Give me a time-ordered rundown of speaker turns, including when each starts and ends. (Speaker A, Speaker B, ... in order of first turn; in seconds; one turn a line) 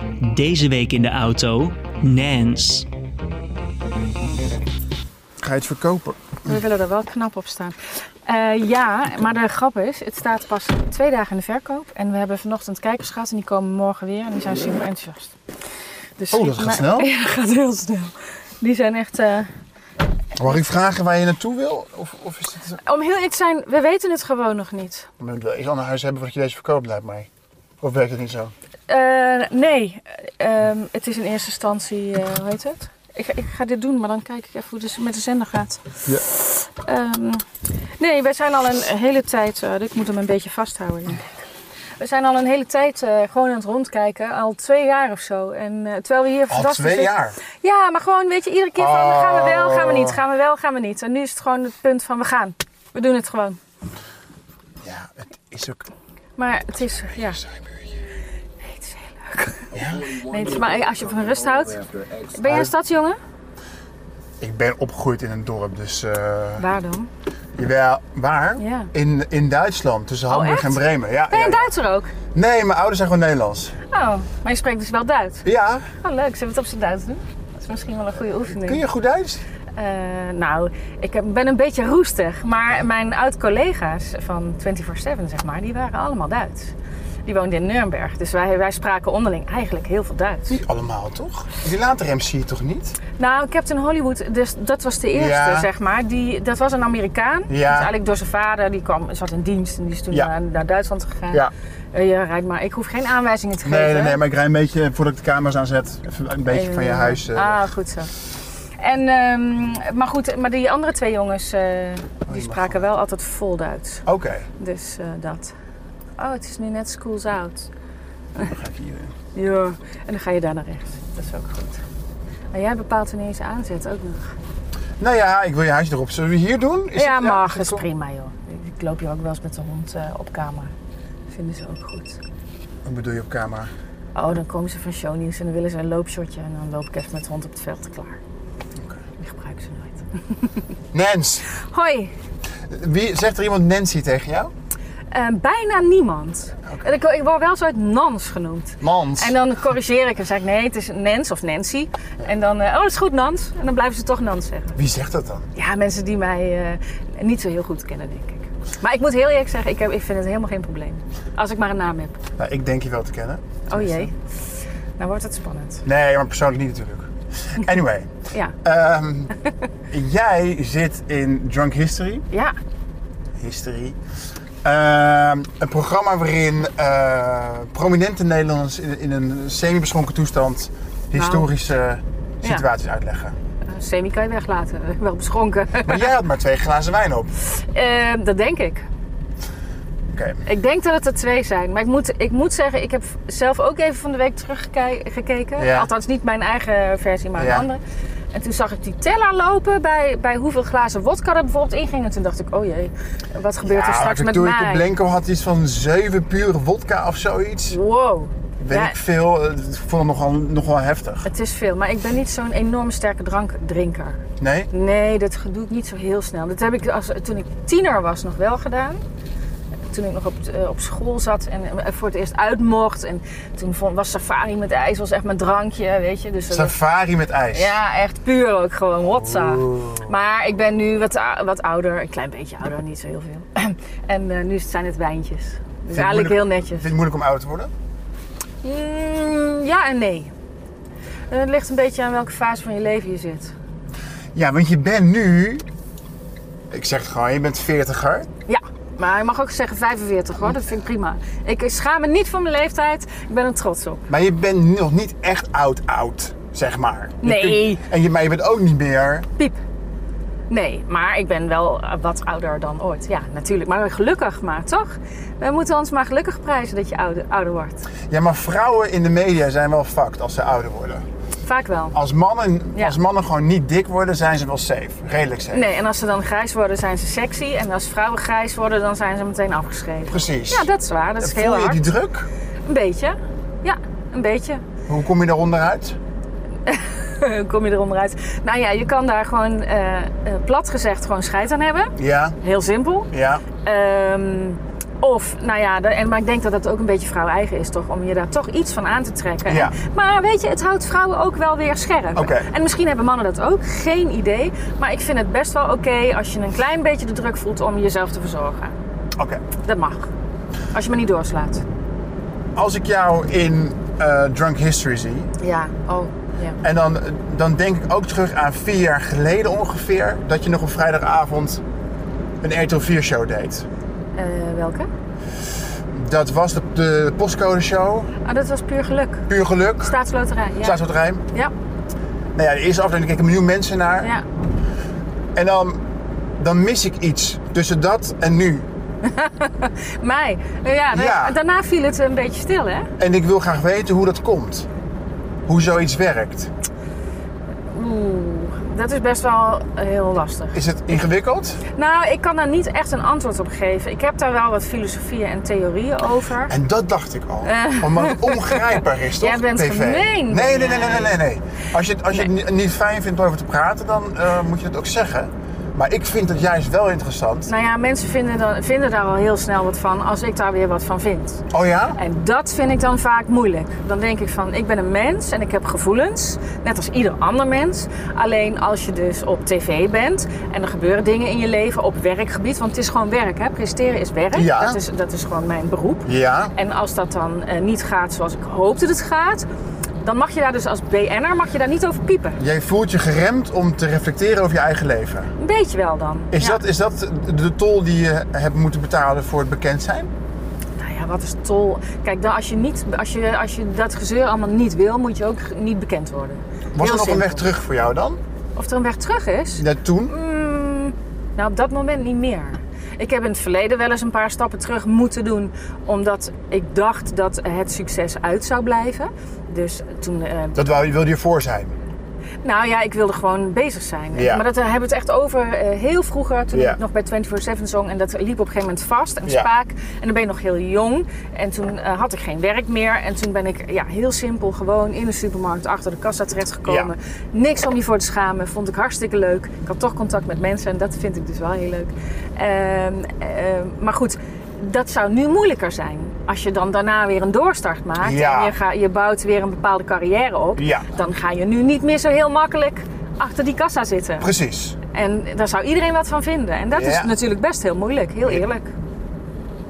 Speaker A: 0.2-2.9
Speaker B: 5.4-6.4
Speaker C: 6.5-15.3
Speaker C: 16.2-19.5
Speaker B: 16.3-17.1
Speaker B: 20.4-22.8
Speaker C: 22.8-25.1
Speaker B: 25.2-27.3
Speaker B: 27.8-28.5
Speaker C: 28.9-37.4
Speaker C: 38.0-41.4
Speaker C: 42.0-53.6
Speaker B: 46.5-47.4
Speaker B: 48.8-50.2
Speaker B: 54.8-55.9
Speaker C: 56.4-57.4
Speaker B: 56.8-57.9
Speaker C: 58.6-63.2
Speaker B: 59.7-60.1
Speaker B: 62.4-62.7
Speaker B: 64.4-66.7
Speaker C: 66.6-67.1
Speaker B: 67.6-71.7
Speaker C: 68.6-68.9
Speaker C: 70.3-72.1
Speaker B: 72.3-73.8
Speaker C: 73.9-75.5
Speaker B: 75.5-75.9
Speaker C: 76.0-78.8
Speaker B: 78.5-79.4
Speaker C: 79.8-86.7
Speaker C: 87.3-90.6
Speaker B: 90.5-93.0
Speaker C: 93.2-104.2
Speaker B: 95.2-95.7
Speaker B: 97.5-97.9
Speaker B: 103.7-107.6
Speaker C: 106.5-108.1
Speaker C: 108.8-114.0
Speaker B: 112.3-112.9
Speaker B: 114.1-114.5
Speaker C: 114.6-115.5
Speaker C: 116.2-117.7
Speaker B: 118.4-119.2
Speaker C: 119.3-121.8
Speaker C: 122.5-124.3
Speaker B: 125.0-127.8
Speaker C: 127.0-130.7
Speaker C: 131.3-132.2
Speaker B: 132.8-133.7
Speaker C: 134.2-138.2
Speaker C: 139.2-140.6
Speaker B: 140.9-141.5
Speaker C: 141.5-142.1
Speaker B: 142.7-144.5
Speaker C: 145.1-154.8
Speaker B: 148.8-149.4
Speaker B: 154.8-155.5
Speaker C: 155.6-162.2
Speaker B: 162.4-164.1
Speaker C: 163.7-164.1
Speaker C: 165.0-165.8
Speaker B: 165.8-168.1
Speaker B: 168.6-169.3
Speaker B: 169.9-172.3
Speaker C: 172.3-172.6
Speaker B: 173.4-174.0
Speaker B: 174.6-183.3
Speaker C: 181.2-181.5
Speaker C: 183.7-186.1
Speaker B: 185.9-187.3
Speaker C: 187.4-188.8
Speaker B: 190.1-190.4
Speaker C: 190.4-197.8
Speaker B: 195.6-195.9
Speaker B: 197.4-197.7
Speaker C: 198.3-204.9
Speaker B: 203.6-207.8
Speaker C: 207.7-209.0
Speaker B: 208.6-211.3
Speaker C: 211.2-219.0
Speaker B: 214.4-214.7
Speaker C: 219.9-226.8
Speaker B: 226.5-227.7
Speaker C: 227.5-236.9
Speaker B: 229.1-230.1
Speaker B: 235.9-237.7
Speaker C: 238.6-240.3
Speaker C: 241.3-243.5
Speaker B: 244.3-245.7
Speaker B: 246.7-248.3
Speaker C: 248.5-254.0
Speaker B: 254.1-259.3
Speaker C: 257.2-257.8
Speaker C: 260.5-267.9
Speaker B: 268.1-271.0
Speaker C: 271.4-271.9
Speaker B: 271.9-275.7
Speaker C: 275.5-281.9
Speaker B: 280.1-280.7
Speaker B: 281.2-282.3
Speaker C: 282.7-284.6
Speaker B: 284.9-286.0
Speaker C: 286.7-308.8
Speaker B: 292.0-292.4
Speaker B: 293.1-293.4
Speaker B: 299.5-299.8
Speaker B: 302.1-302.5
Speaker B: 309.2-309.4
Speaker C: 309.6-310.1
Speaker C: 310.7-311.6
Speaker B: 312.6-315.3
Speaker C: 315.4-316.6
Speaker B: 316.6-321.6
Speaker B: 322.4-323.7
Speaker C: 324.2-324.9
Speaker B: 325.9-328.1
Speaker C: 328.2-329.3
Speaker B: 329.3-329.9
Speaker C: 329.8-330.8
Speaker B: 330.6-331.2
Speaker B: 332.4-334.1
Speaker C: 334.0-334.3
Speaker B: 335.4-335.8
Speaker B: 336.4-338.7
Speaker C: 339.0-342.9
Speaker B: 340.9-341.4
Speaker B: 343.0-344.7
Speaker B: 345.5-346.5
Speaker C: 347.7-350.6
Speaker B: 350.5-351.6
Speaker C: 351.7-356.5
Speaker B: 356.5-367.5
Speaker C: 357.4-361.2
Speaker C: 367.5-371.4
Speaker B: 371.5-372.0
Speaker C: 372.0-389.5
Speaker B: 384.3-384.8
Speaker B: 386.1-386.5
Speaker C: 390.0-392.4
Speaker B: 392.4-395.3
Speaker C: 395.4-396.6
Speaker B: 396.3-400.1
Speaker C: 400.8-407.5
Speaker B: 406.8-408.2
Speaker C: 408.6-420.6
Speaker B: 409.6-410.1
Speaker B: 420.6-421.7
Speaker C: 422.4-454.3
Speaker B: 424.1-424.4
Speaker B: 426.5-426.8
Speaker B: 436.7-436.9
Speaker B: 448.0-448.5
Speaker B: 450.6-450.9
Speaker B: 454.2-454.8
Speaker C: 454.9-458.7
Speaker B: 456.7-457.1